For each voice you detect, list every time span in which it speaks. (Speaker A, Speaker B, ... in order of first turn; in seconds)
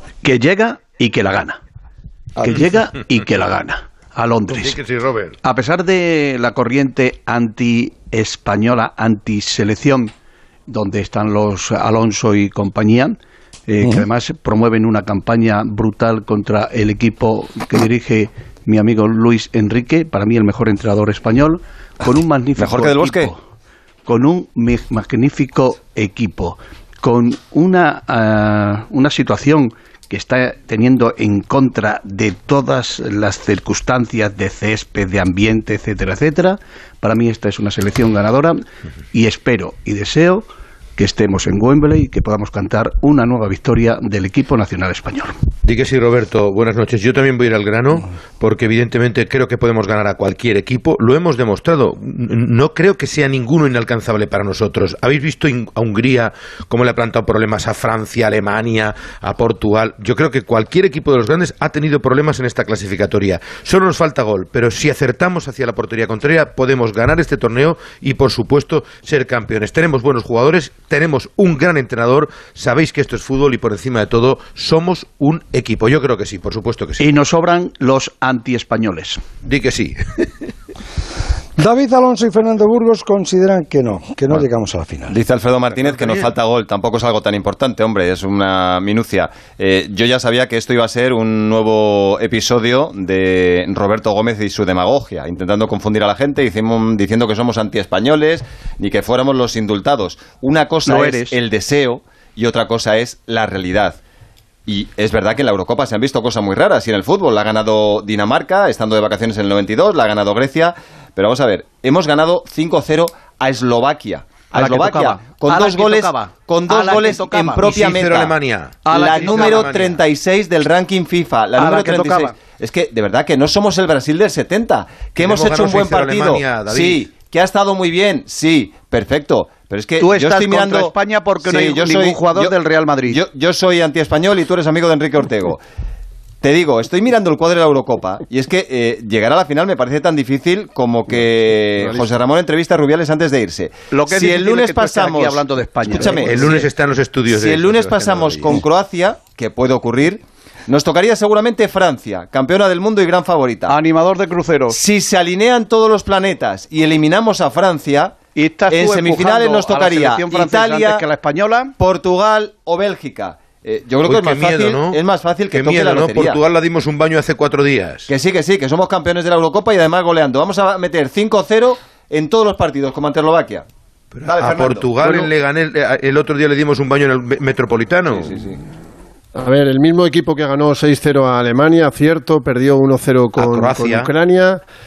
Speaker A: 0.2-1.6, 2.4-4.8, 5.4-10.1, 10.7-23.4, 24.1-45.3, 77.0-79.2, 100.8-101.4, 114.5-117.9, 118.8-119.7, 121.5-122.3, 130.0-133.2, 143.9-146.6, 153.7-154.8, 158.3-161.7
Speaker B: 4.5-5.4, 45.6-77.2, 79.4-80.3, 85.7-86.3, 117.5-120.0, 125.1-127.1, 145.9-148.7, 164.0-168.1, 174.3-178.5, 183.4-184.1
Speaker C: 22.6-23.3, 85.1-104.0, 104.7-118.3, 118.9-135.6, 136.4-146.7, 147.3-153.8, 154.7-158.2, 158.7-161.1, 161.8-166.4, 168.1-173.7, 174.2-174.9, 178.1-178.6
Speaker D: 81.6-85.2
Speaker E: 179.3-184.6